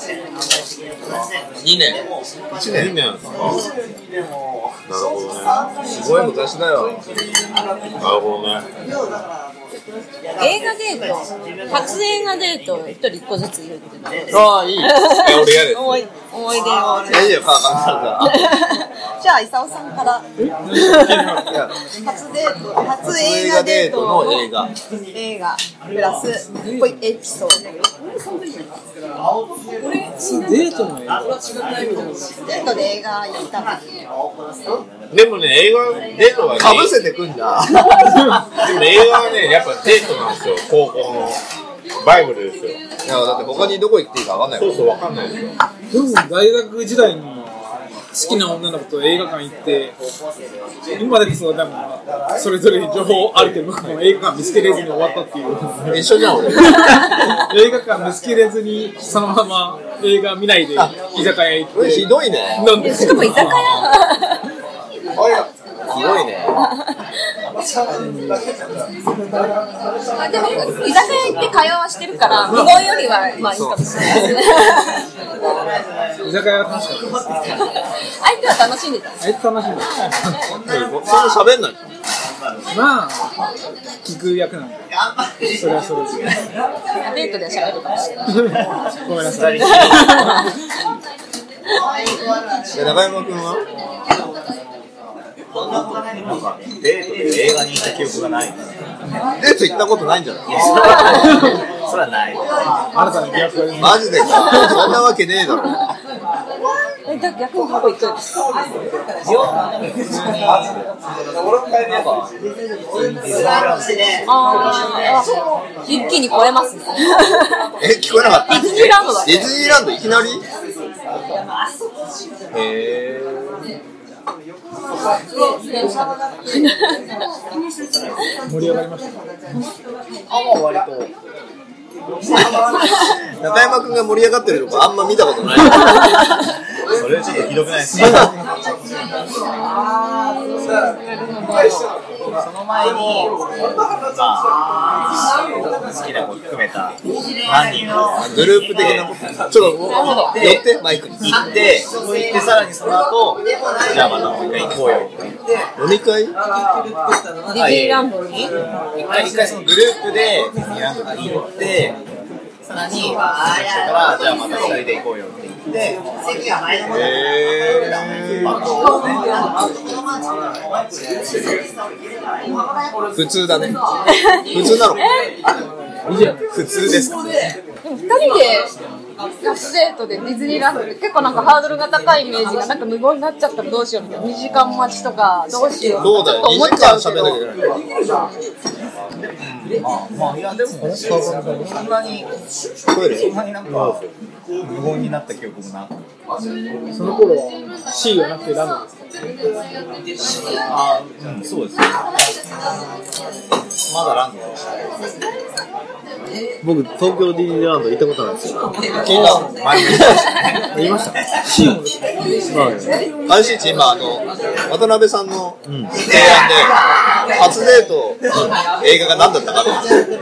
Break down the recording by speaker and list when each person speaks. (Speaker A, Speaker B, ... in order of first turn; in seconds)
Speaker A: 1.6-2.0, 2.5-2.9, 5.8-7.0, 14.3-15.0, 17.1-18.4, 21.5-21.7, 23.1-24.7, 36.5-38.1, 43.0-44.9, 55.9-56.9, 61.7-62.8, 65.2-66.5, 73.4-74.3, 80.7-81.9, 92.7-93.6, 99.4-101.0, 103.8-105.8, 117.8-120.4, 122.6-122.9, 133.4-136.2, 148.2-151.3, 154.8-155.1, 155.8-156.3, 166.9-168.5, 173.1-173.8, 174.5-175.1, 176.5-177.2, 186.0-187.8, 189.4-189.8, 192.9-193.9, 209.0-210.0, 213.2-216.8, 217.3-219.9
Speaker B: 2.7-3.6, 4.9-5.6, 8.0-8.7, 15.1-16.0, 35.1-37.0, 38.5-41.4, 42.0-42.8, 44.5-45.6
Speaker C: 10.4-17.4, 18.2-24.5, 25.1-28.6, 29.8-30.7, 32.5-33.8, 62.7-64.4, 70.2-75.0, 78.2-79.2, 87.0-88.1, 89.6-90.5, 100.8-101.2, 107.0-108.3, 114.2-117.7, 118.5-119.5, 125.5-127.0, 139.7-141.9, 149.8-150.4, 157.5-158.5, 174.1-175.3, 177.8-178.7, 179.4-187.3
Speaker D: 20.4-21.5, 26.6-27.0, 30.1-32.2, 45.9-47.5, 48.1-50.0, 50.9-63.9, 68.0-68.5, 72.5-72.9, 76.2-77.4, 79.2-80.3, 82.7-83.3, 84.0-84.8, 85.5-86.4, 88.4-90.5, 101.1-101.6, 102.9-104.8, 128.5-129.2, 196.9-199.0, 211.5-212.8
Speaker E: 89.3-89.8, 96.2-98.7, 100.5-102.6, 109.3-110.7, 111.8-112.3, 112.9-114.8, 122.6-123.4, 130.3-131.1, 136.9-138.6, 142.3-144.6, 145.7-150.6, 151.2-155.4, 157.5-158.1, 159.0-162.0, 162.7-166.0, 168.2-169.2, 189.2-192.3, 193.1-194.1, 194.6-196.1, 200.7-202.0, 203.9-204.6, 209.1-210.6
Speaker F: 193.7-194.0, 206.6-208.7, 210.7-211.2, 212.5-212.9, 215.6-216.0